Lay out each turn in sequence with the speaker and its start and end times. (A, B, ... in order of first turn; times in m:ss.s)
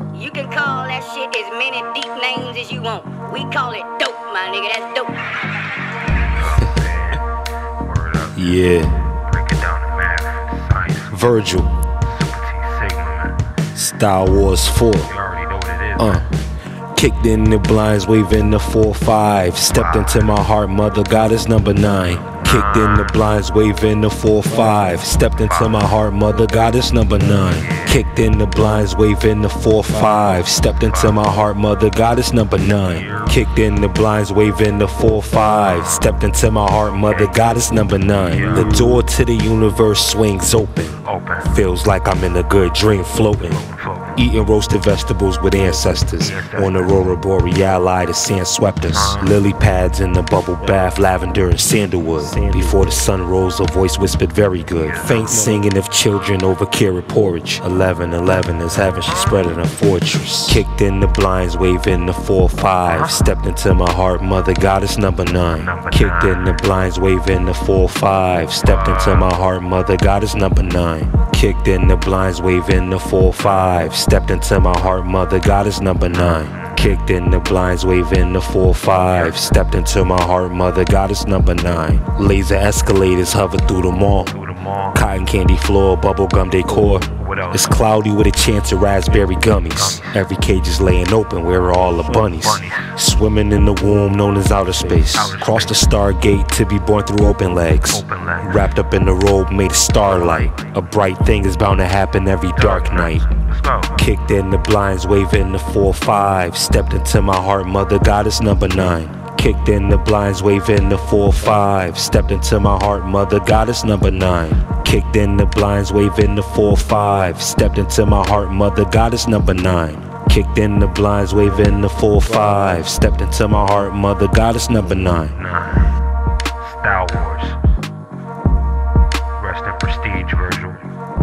0:00.1-0:05.7 A
0:06.3-0:07.2 B
0:07.8-0:11.3 B
0:08.3-0:09.1 C
0:11.1-0:11.7 C
0:12.0-0:13.4 B
0:13.8-0:15.1 C
0:15.0-0:16.2 B
0:16.0-0:16.3 C
0:16.9-0:43.6 C
0:19.7-0:20.3 B
0:22.1-0:23.2 B
0:25.4-0:25.9 B
0:27.4-0:28.0 B
0:30.7-0:31.2 B
0:32.7-0:33.4 B
0:35.5-0:36.1 B
0:36.8-0:38.8 B
0:41.0-0:41.5 B
0:43.2-0:44.2 B
0:44.2-1:24.4 C
0:46.2-0:47.1 B
0:48.9-0:49.4 B
0:52.2-0:52.7 B
0:54.8-0:55.6 B
0:58.8-0:59.5 B
1:02.9-1:03.2 B
1:05.6-1:06.5 B
1:08.6-1:09.3 B
1:16.1-1:16.9 B
1:18.9-1:19.5 B
1:24.2-1:25.0 B
1:24.9-1:43.3 C
1:26.7-1:27.8 B
1:29.2-1:30.2 B
1:32.0-1:32.9 B
1:34.7-1:35.9 B
1:37.9-1:38.7 B
1:40.0-1:40.6 B
1:42.5-1:44.0 B
1:43.9-2:05.4 C
2:05.3-2:05.9 B
2:06.6-2:07.6 B
2:09.4-2:10.9 B